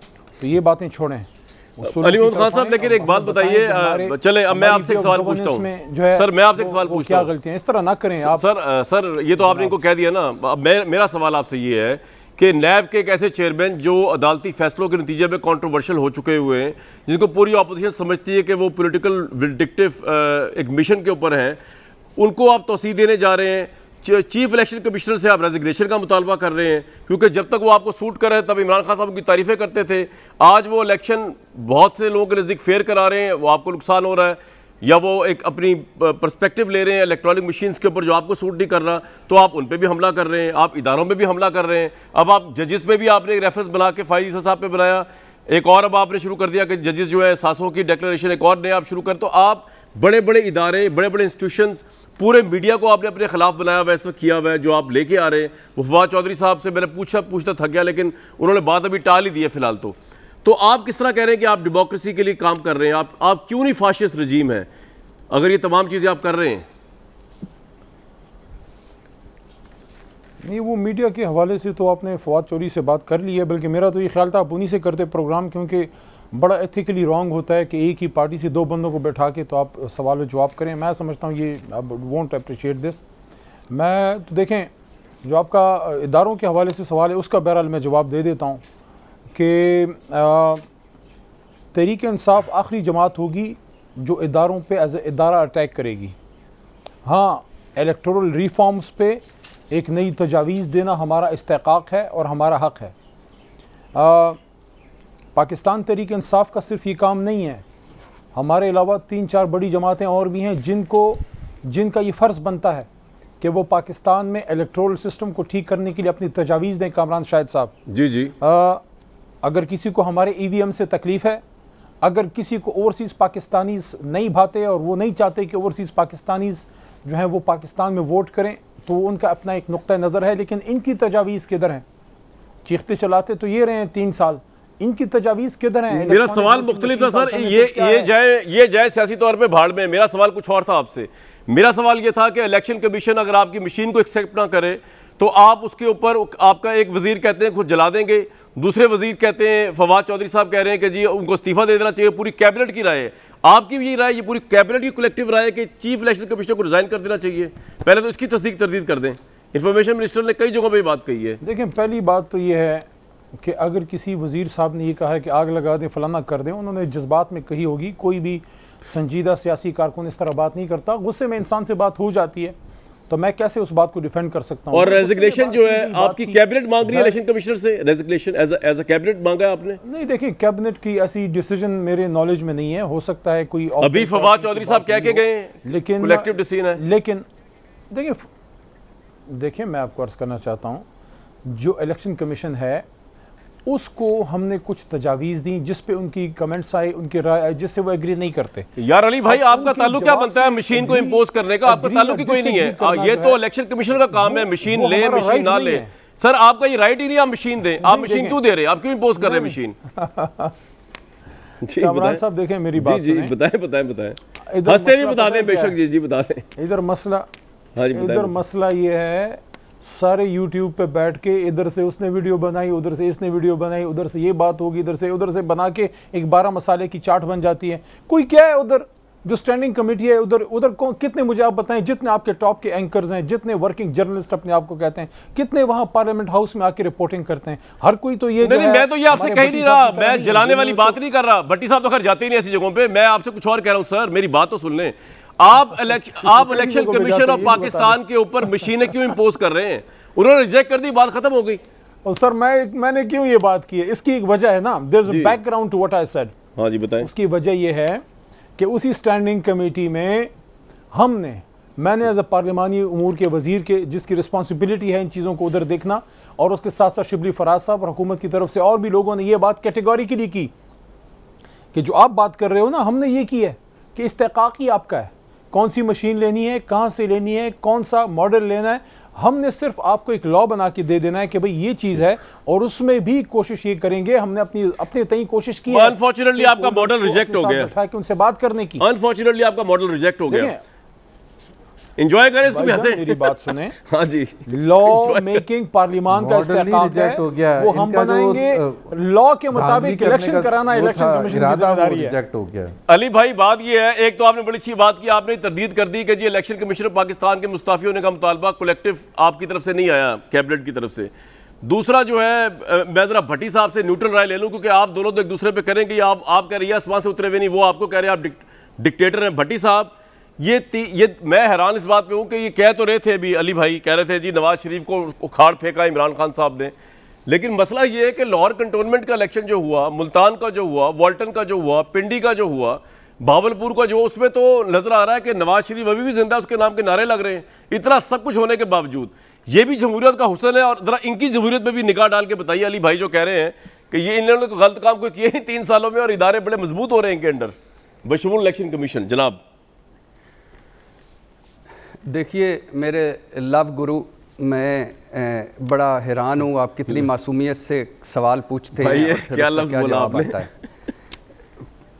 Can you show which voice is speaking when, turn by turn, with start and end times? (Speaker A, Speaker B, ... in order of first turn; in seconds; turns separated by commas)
Speaker A: 0.4-8.4, Speaker B: 1.8-7.3, Speaker B: 8.2-21.6, Speaker A: 9.4-9.8, Speaker B: 22.2-64.7, Speaker B: 65.3-66.7, Speaker A: 70.4-83.0, Speaker A: 83.7-84.7, Speaker A: 85.2-88.6, Speaker A: 89.3-90.6, Speaker A: 91.7-96.2, Speaker A: 97.0-102.9, Speaker A: 103.9-104.4, Speaker A: 105.3-107.6, Speaker A: 108.3-112.9, Speaker A: 113.4-117.7, Speaker B: 117.9-118.3, Speaker A: 118.4-118.8, Speaker A: 119.4-121.4, Speaker A: 122.0-131.8, Speaker A: 132.7-138.1, Speaker B: 135.9-161.4, Speaker A: 161.4-162.9, Speaker A: 163.4-172.6, Speaker A: 173.1-177.2, Speaker B: 174.7-179.8, Speaker A: 179.8-187.2, Speaker B: 183.8-186.8, Speaker A: 187.9-188.3, Speaker A: 189.3-190.8, Speaker A: 191.5-192.9, Speaker A: 193.7-198.7, Speaker B: 198.8-209.8, Speaker A: 199.2-203.4, Speaker A: 204.1-205.9, Speaker A: 207.8-208.4, Speaker A: 209.2-210.5, Speaker B: 211.6-212.2, Speaker A: 211.8-213.3, Speaker B: 212.8-216.5, Speaker A: 214.5-215.8, Speaker A: 216.6-217.3, Speaker B: 217.8-218.3, Speaker A: 217.9-241.0, Speaker B: 238.4-251.6, Speaker A: 245.9-248.0, Speaker A: 252.1-256.3, Speaker B: 255.1-255.4, Speaker B: 256.6-257.1, Speaker A: 257.0-258.0, Speaker A: 258.6-260.3, Speaker A: 260.9-270.5, Speaker A: 271.7-288.9, Speaker B: 285.7-287.7, Speaker B: 288.8-290.5, Speaker A: 290.3-290.6, Speaker B: 292.0-295.4, Speaker A: 292.5-293.7, Speaker A: 294.5-302.2, Speaker C: 296.1-298.9, Speaker C: 299.5-302.8, Speaker B: 302.9-311.1, Speaker B: 311.6-326.7, Speaker B: 327.3-347.5, Speaker B: 348.1-349.4, Speaker D: 352.1-360.5, Speaker B: 358.8-360.5